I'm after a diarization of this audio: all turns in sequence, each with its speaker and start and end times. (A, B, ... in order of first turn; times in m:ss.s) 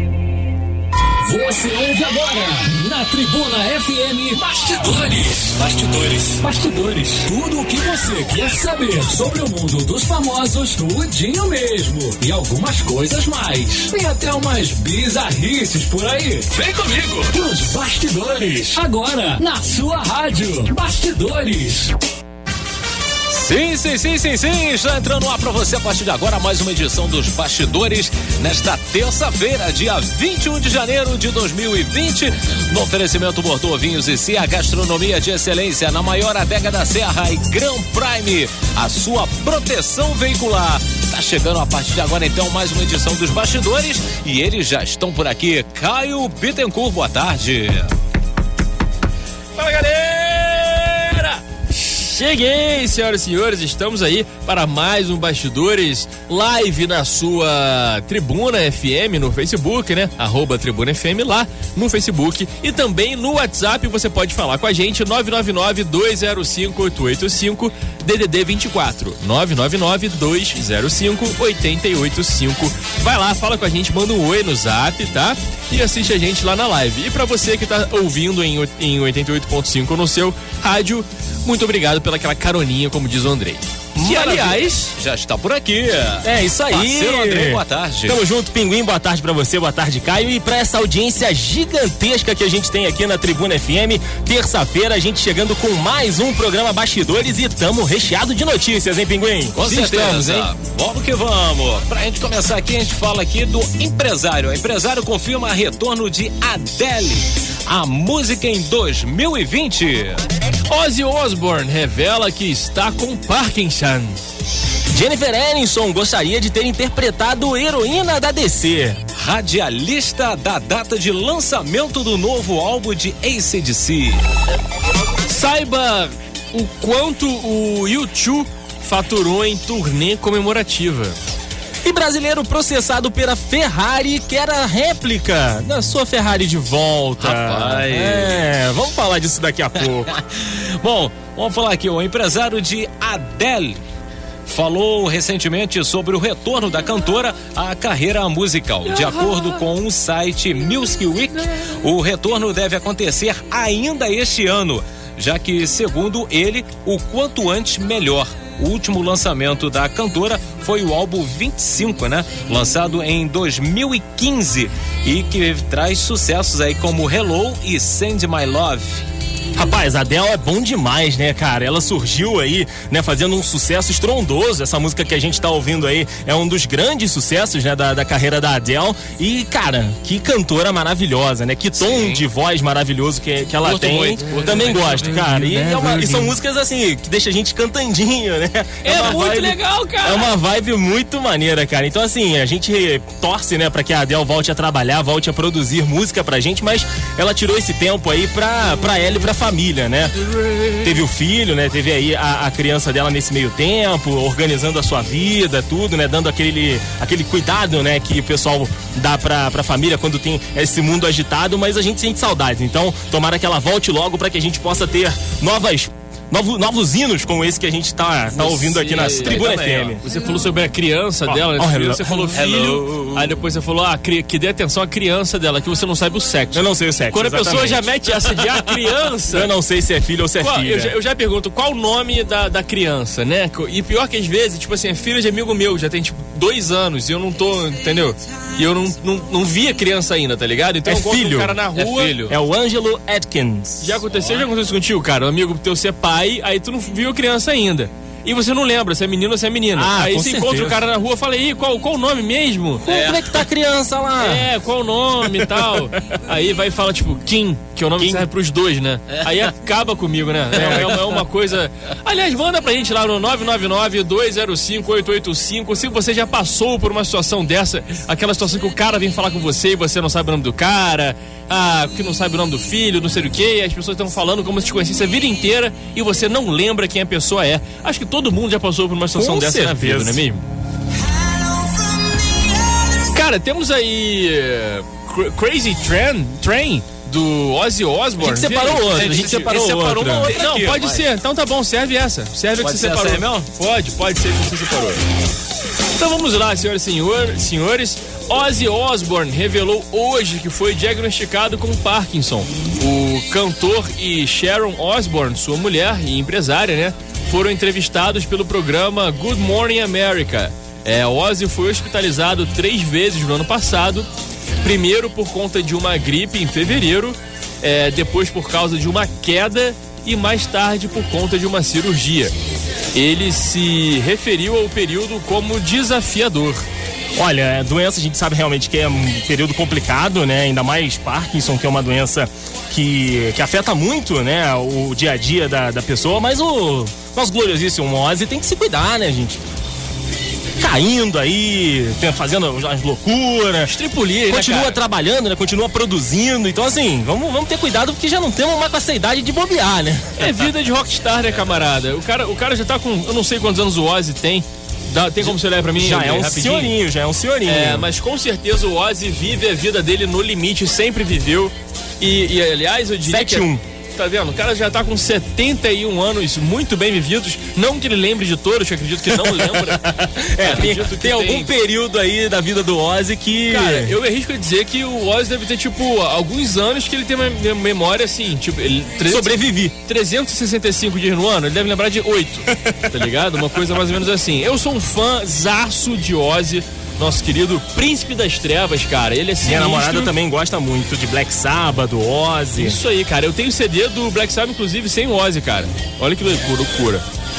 0:01.2-0:22.0 A
0:16.6-0:17.3 B
0:23.3-0:47.9 B
0:49.6-1:24.9 C
1:24.0-1:24.7 D
1:24.9-1:28.2 B
1:26.2-1:39.6 D
1:39.6-1:50.2 B
1:39.6-1:40.5 C
1:50.7-1:54.2 C
1:54.9-1:59.0 D
1:59.2-2:04.2 B
2:05.3-2:11.2 C
2:11.8-2:20.1 D
2:17.2-2:18.4 B
2:20.1-2:23.8 B
2:24.5-2:49.0 B
2:28.8-2:29.8 C
2:31.3-2:31.7 C
2:49.6-3:20.2 D
3:01.9-3:02.2 C
3:03.6-3:06.4 C
3:03.9-3:05.1 B
3:08.8-3:10.3 C
3:20.2-3:21.0 C
3:20.8-3:40.0 D
3:38.4-3:49.5 C
3:39.2-3:40.0 B
3:41.2-3:42.4 D
3:42.4-3:43.4 B
3:46.5-3:48.7 D
3:49.3-3:50.9 D
3:50.4-4:02.2 C
4:00.8-4:01.6 D
4:01.8-4:02.4 B
4:02.3-4:04.0 D
4:03.8-4:12.8 C
4:09.8-4:10.8 D
4:12.8-4:13.4 B
4:12.8-4:14.5 D
4:14.2-4:40.4 C
4:15.3-4:16.0 D
4:18.0-4:18.3 B
4:20.5-4:20.9 D
4:39.2-4:40.2 D
4:43.1-4:49.2 C
4:48.2-4:50.3 D
4:48.9-4:51.1 B
4:50.2-4:55.0 C
4:52.6-4:53.5 B
4:56.0-5:14.1 C
5:14.6-5:22.3 C
5:22.9-5:26.7 C
5:27.2-5:39.4 D
5:40.6-5:43.7 D
5:43.7-5:44.8 C
5:44.3-5:50.5 D
5:50.2-5:56.8 C
5:55.2-5:57.9 D
5:57.5-6:09.9 C
6:03.1-6:03.6 D
6:09.1-6:14.0 D
6:10.4-6:11.5 C
6:13.5-6:30.1 C
6:19.1-6:19.8 D
6:29.4-6:32.8 D
6:32.6-6:37.0 C